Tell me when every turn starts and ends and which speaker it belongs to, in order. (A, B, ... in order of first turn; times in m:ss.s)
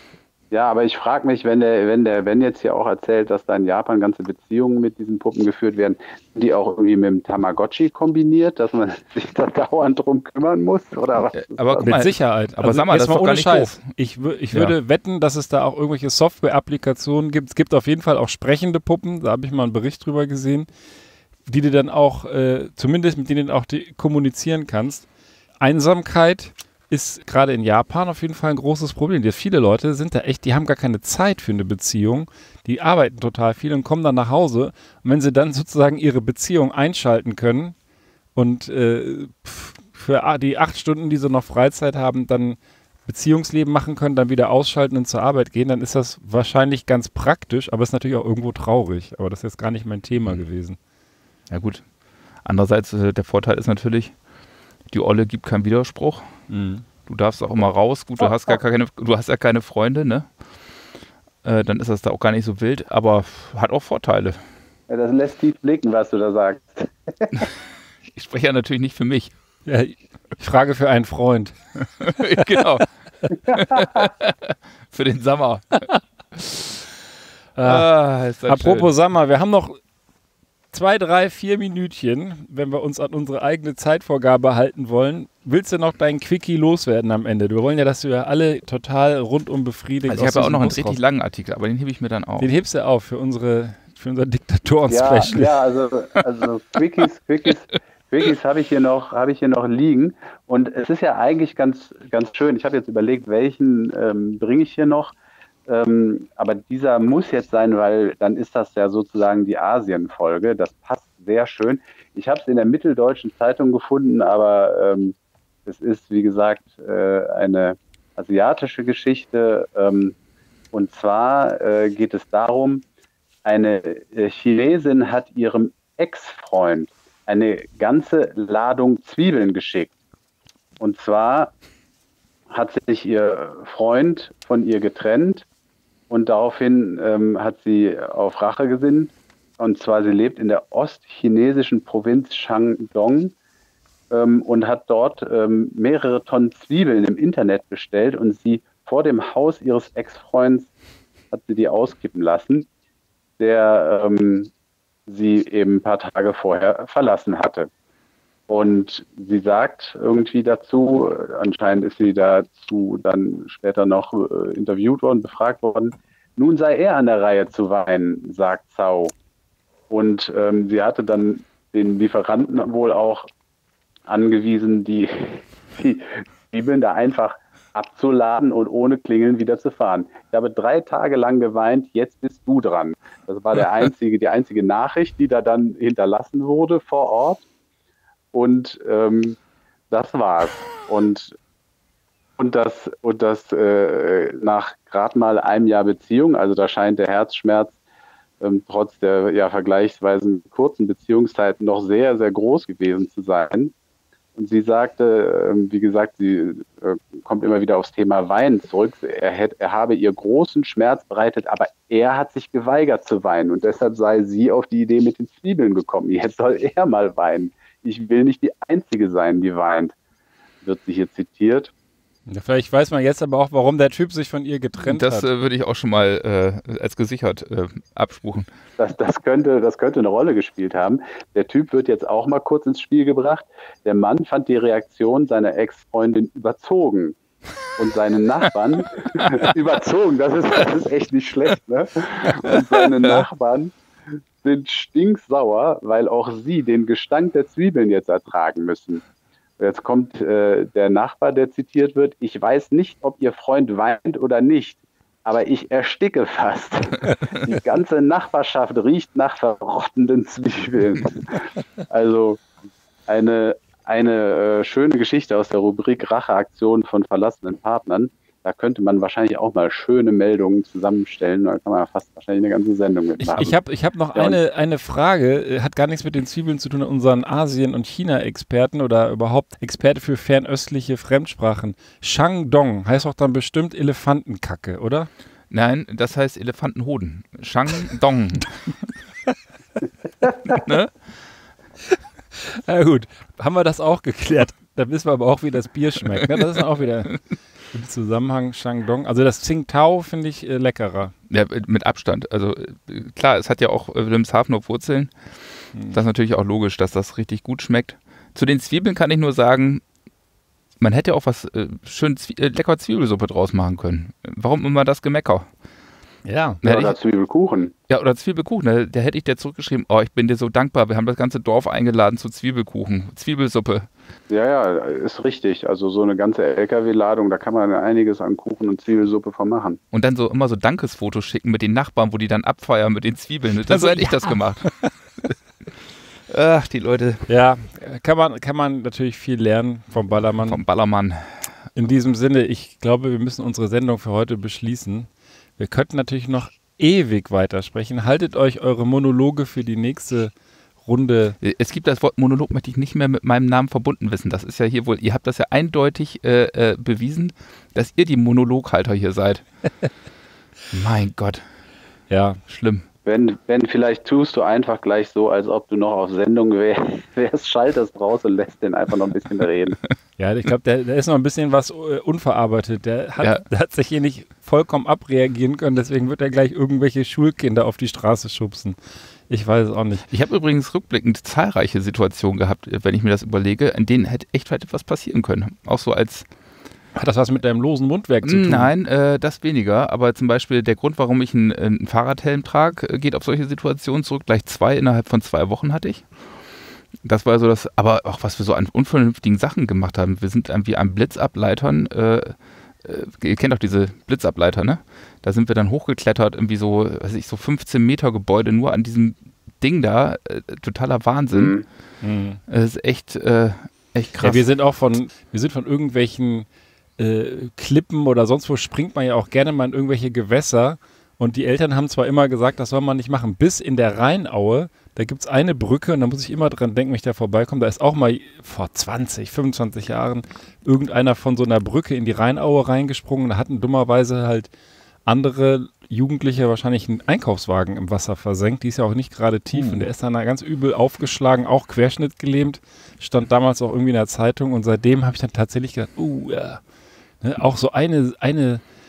0:00.5-0:11.9 A
0:11.4-0:13.8 B
0:11.8-0:20.7 C
0:21.5-0:25.1 C
0:25.6-0:37.7 C
0:38.4-0:50.8 C
0:51.5-0:51.8 B
0:52.4-0:54.2 B
0:54.9-0:56.3 B
0:56.5-0:56.8 C
0:57.0-1:00.3 B
0:58.2-0:58.5 A
1:01.4-1:04.4 B
1:04.9-1:07.4 A
1:08.1-1:09.3 B
1:09.6-1:11.6 C
1:12.0-1:12.9 B
1:13.5-1:16.4 B
1:17.6-1:17.9 C
1:17.6-1:18.9 B
1:18.4-1:19.8 C
1:20.7-1:31.0 C
1:30.1-1:32.5 B
1:32.4-1:35.5 C
1:34.9-1:45.1 A
1:45.7-1:55.1 A
1:55.6-2:00.1 A
2:00.7-2:02.8 A
2:03.4-2:09.9 A
2:10.8-2:11.5 A
2:12.5-2:15.4 A
2:16.1-2:23.3 A
2:24.1-2:30.7 A
2:31.3-2:32.7 A
2:33.4-2:34.5 A
2:35.1-2:37.7 A
2:38.5-2:49.1 A
2:49.9-2:53.3 A
2:54.1-3:07.4 A
3:08.3-3:09.4 A
3:09.9-3:11.4 A
3:12.4-3:17.7 A
3:18.4-3:23.7 A
3:24.4-3:39.9 A
3:40.6-3:41.7 A
3:42.3-3:45.3 C
3:44.8-3:48.5 B
3:48.8-3:57.2 A
3:57.8-4:03.7 A
4:02.5-4:03.2 B
4:04.4-4:09.0 A
4:09.6-4:22.4 A
4:23.1-4:33.6 A
4:33.2-4:45.1 C
4:45.5-4:48.6 B
4:50.4-4:50.9 B
4:52.4-4:57.2 C
4:57.7-5:01.1 C
5:01.3-5:05.1 B
5:05.9-5:09.8 B
5:10.8-5:15.5 B
5:16.2-5:16.6 C
5:16.6-5:17.0 B
5:16.6-5:17.7 A
5:17.9-5:23.9 B
5:24.3-5:29.8 A
5:29.9-5:34.8 B
5:33.6-5:34.9 C
5:36.2-5:37.2 B
5:37.3-5:40.6 C
5:40.4-5:41.4 B
5:41.7-5:50.3 C
5:50.8-5:51.4 C
5:51.4-5:59.4 B
6:00.7-6:01.4 B
6:02.1-6:02.4 C
6:02.5-6:02.8 B
6:03.0-6:09.8 A
6:10.2-6:18.8 C
6:19.3-6:20.1 C
6:20.1-6:26.3 B
6:27.0-6:28.7 C
6:28.2-6:36.0 B
6:37.0-6:51.6 B
6:51.3-6:51.6 A
6:52.0-6:52.4 C
6:52.5-6:54.4 B
6:54.2-6:56.5 C
6:57.0-7:14.5 C
7:15.0-7:26.6 C
7:19.5-7:19.9 B
7:27.2-7:28.6 C